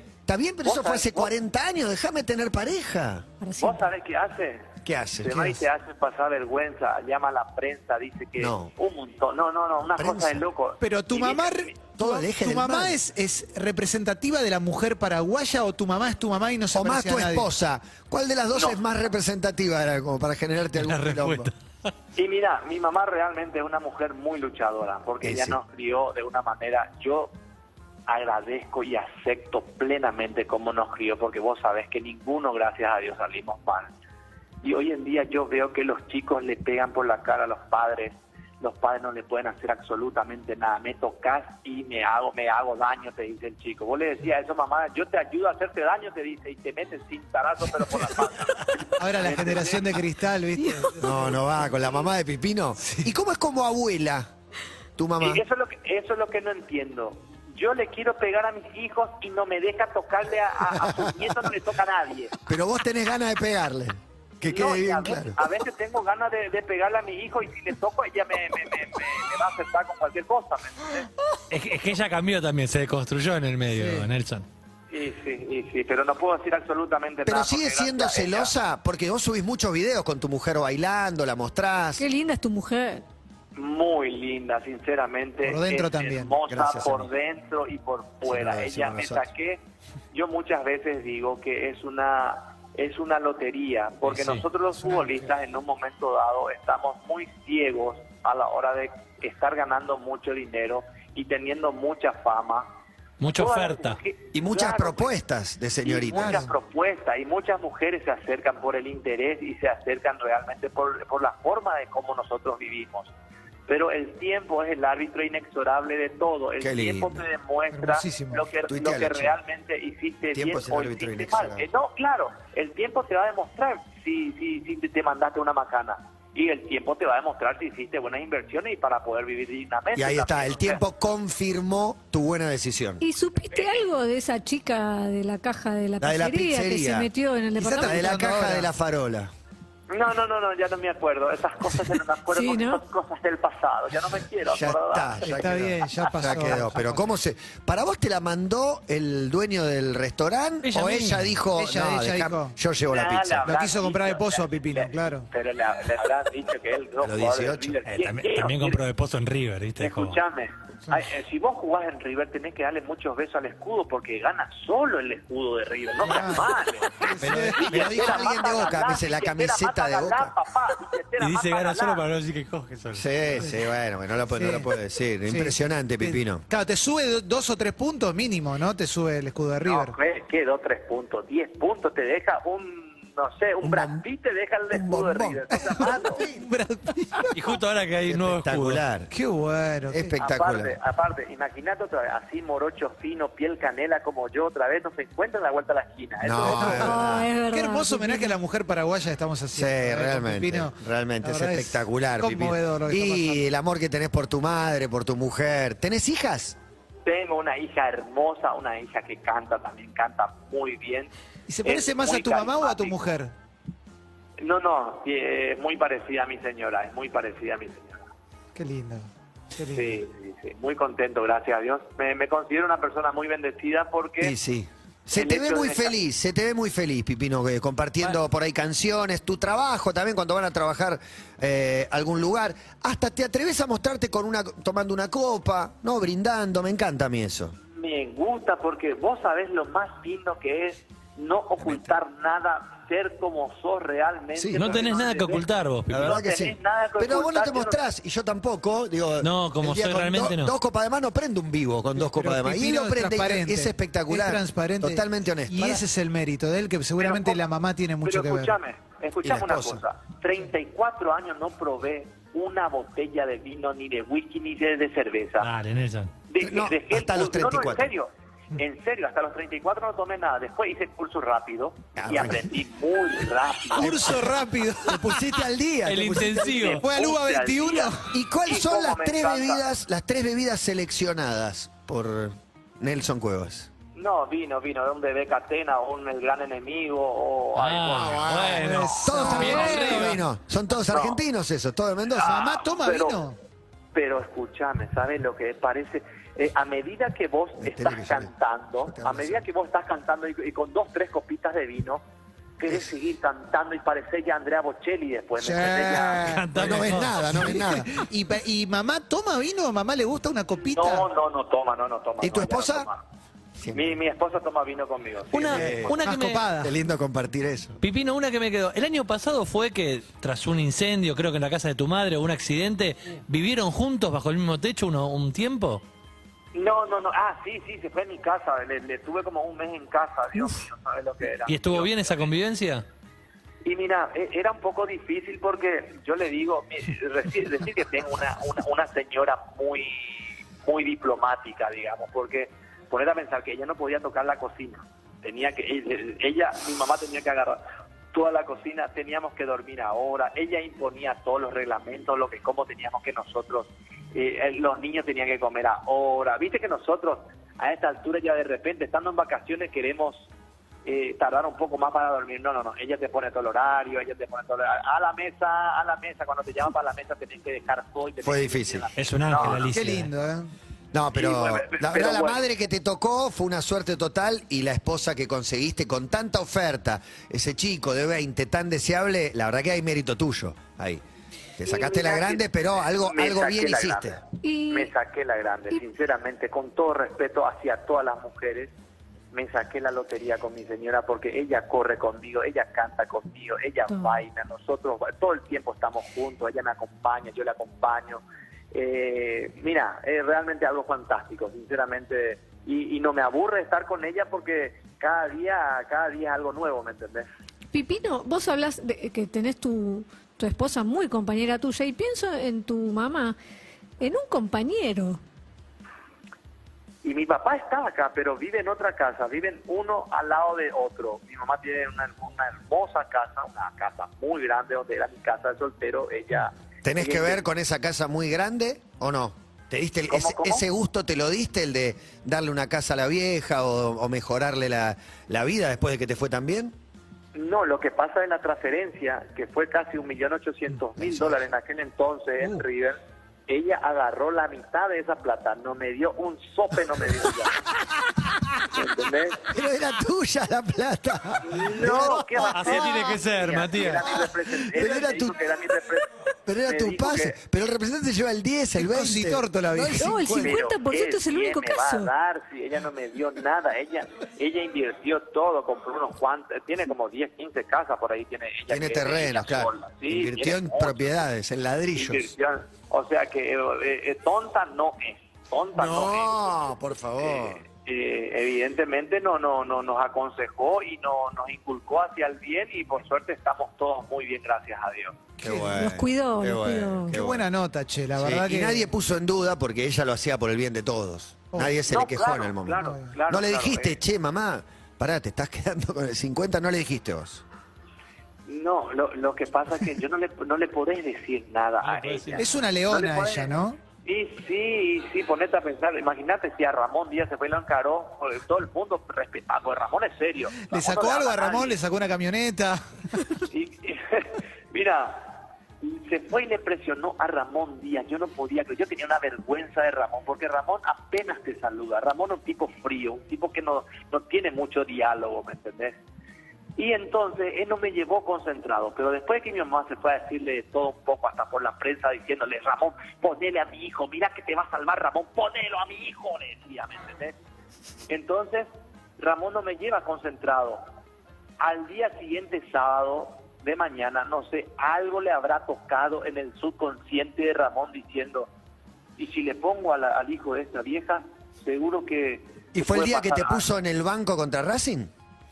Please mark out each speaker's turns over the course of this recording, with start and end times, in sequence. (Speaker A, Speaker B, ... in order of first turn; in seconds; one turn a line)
Speaker A: 0.3-3.3
Speaker B: 0.6-1.3
Speaker C: 3.4-3.8
Speaker B: 3.6-11.8
Speaker A: 4.8-5.7
Speaker A: 8.4-8.7
Speaker A: 9.8-10.4
Speaker D: 10.8-17.5
Speaker A: 12.0-13.0
Speaker A: 16.7-21.5
Speaker B: 18.5-18.8
Speaker E: 20.7-21.6
Speaker B: 22.1-27.3
Speaker A: 25.2-25.6
Speaker B: 28.1-33.9
Speaker B: 34.6-50.1
Speaker D: 49.0-51.7
Speaker C: 50.6-50.9
Speaker A: 51.0-54.3
Speaker A: 55.0-55.4
Speaker B: 55.2-62.4
Speaker A: 60.7-61.4
Speaker A: 62.5-65.4
Speaker B: 64.5-71.1
Speaker E: 71.5-74.5
Speaker D: 73.7-74.1
Speaker B: 74.9-78.5
Speaker A: 77.3-82.1
Speaker C: 82.0-83.0
Speaker B: 83.5-102.8
Speaker D: 85.4-86.4
Speaker A: 86.5-87.1
Speaker A: 88.2-89.3
Speaker E: 94.0-94.4
Speaker D: 94.8-95.3
Speaker E: 103.2-104.0
Speaker B: 103.3-105.2
Speaker A: 104.3-106.5
Speaker B: 105.8-113.1
Speaker D: 106.1-106.5
Speaker B: 113.7-130.8
Speaker A: 116.6-117.2
Speaker D: 117.7-118.4
Speaker A: 118.7-119.4
Speaker A: 120.3-121.7
Speaker A: 129.9-133.0
Speaker C: 133.0-138.2
Speaker B: 133.4-133.8
Speaker A: 136.0-137.1
Speaker D: 137.6-138.7
Speaker A: 137.6-139.3
Speaker B: 139.9-145.3
Speaker C: 142.3-142.8
Speaker A: 144.5-153.5
Speaker D: 145.2-147.1
Speaker E: 150.6-151.3
Speaker D: 151.6-152.6
Speaker B: 152.9-158.8
Speaker D: 153.4-155.3
Speaker A: 157.0-157.9
Speaker E: 157.9-160.2
Speaker B: 159.8-172.0
Speaker D: 166.0-168.2
Speaker A: 167.1-170.3
Speaker E: 171.2-173.5
Speaker A: 172.9-176.5
Speaker D: 174.3-174.7
Speaker D: 175.3-179.9
Speaker B: 179.7-186.3
Speaker A: 183.6-184.1
Speaker A: 184.7-186.4
Speaker D: 185.6-187.3
Speaker E: 187.3-188.8
Speaker A: 188.1-189.1
Speaker D: 189.1-190.1
Speaker A: 189.9-190.8
Speaker B: 190.2-196.9
Speaker A: 196.2-197.3
Speaker D: 196.4-203.5
Speaker C: 196.7-198.4
Speaker A: 199.5-206.6
Speaker B: 207.1-211.1
Speaker D: 211.5-213.3
Speaker B: 211.6-213.1
Speaker B: 214.4-218.1
Speaker D: 218.6-220.0
Speaker B: 219.7-224.3
Speaker A: 224.2-237.6
Speaker B: 225.2-226.0
Speaker B: 237.7-247.8
Speaker A: 241.6-241.9
Speaker A: 244.4-244.6
Speaker E: 244.6-246.2
Speaker A: 245.9-255.8
Speaker E: 249.2-250.5
Speaker D: 252.0-258.6
Speaker B: 257.0-257.4
Speaker B: 258.0-265.5
Speaker A: 259.2-259.8
Speaker E: 265.4-266.1
Speaker B: 266.3-274.2
Speaker A: 266.4-267.9
Speaker A: 272.0-272.6
Speaker D: 273.8-275.5
Speaker A: 273.8-276.6
Speaker E: 275.8-276.8
Speaker B: 276.4-279.7
Speaker D: 276.6-278.1
Speaker A: 278.1-283.7
Speaker B: 283.9-288.6
Speaker E: 287.6-290.2
Speaker A: 288.1-292.5
Speaker D: 288.2-290.2
Speaker B: 290.9-291.2
Speaker B: 292.2-293.2
Speaker D: 292.2-293.4
Speaker B: 293.9-302.0
Speaker A: 297.6-298.3
Speaker A: 298.8-299.4
Speaker B: 302.6-306.3
Speaker D: 305.4-311.1
Speaker E: 306.1-307.4
Speaker A: 306.6-308.0
Speaker B: 310.6-313.0
Speaker A: 312.2-312.9
Speaker A: 313.6-314.0
Speaker B: 313.7-316.0
Speaker D: 315.3-316.8
Speaker E: 315.4-316.4
Speaker A: 315.5-317.8
Speaker E: 317.8-325.8
Speaker B: 326.5-332.3
Speaker E: 331.5-332.9
Speaker B: 333.6-347.6
Speaker B: 348.1-360.3
Speaker B: 360.9-369.7
Speaker A: 368.2-368.9
Speaker E: 369.0-370.1
Speaker A: 369.4-369.7
Speaker D: 369.7-370.5
Speaker A: 370.9-381.0
Speaker B: 371.1-372.4
Speaker A: 381.6-384.2
Speaker B: 381.6-388.7
Speaker C: 384.4-384.9
Speaker B: 389.3-407.3
Speaker C: 407.7-413.4
Speaker C: 414.0-415.2
Speaker B: 417.0-427.4
Speaker A: 426.8-436.8
Speaker B: 430.1-430.6
Speaker B: 437.3-443.0
Speaker A: 441.0-441.4
Speaker B: 443.5-447.6
Speaker B: 448.6-449.5
Speaker A: 449.4-453.1
Speaker B: 451.4-456.1
Speaker E: 452.4-454.1
Speaker A: 454.6-455.4
Speaker A: 456.5-460.6
Speaker B: 456.6-457.4
Speaker D: 458.8-460.2
Speaker C: 459.8-462.1
Speaker B: 460.3-471.0
Speaker A: 468.7-472.3
Speaker B: 471.9-476.5
Speaker A: 475.8-477.6
Speaker B: 477.2-485.2
Speaker D: 485.4-485.8
Speaker A: 485.4-487.5
Speaker C: 485.8-487.2
Speaker D: 487.1-488.9
Speaker A: 488.2-497.4
Speaker B: 491.9-494.0
Speaker D: 492.8-493.1
Speaker B: 498.5-511.8
Speaker E: 501.8-502.6
Speaker D: 502.4-503.8
Speaker D: 510.7-513.4
Speaker B: 513.5-526.0
Speaker B: 526.8-537.3
Speaker B: 538.1-540.8
Speaker B: 541.6-548.5
Speaker B: 549.2-553.7
Speaker A: 552.7-555.1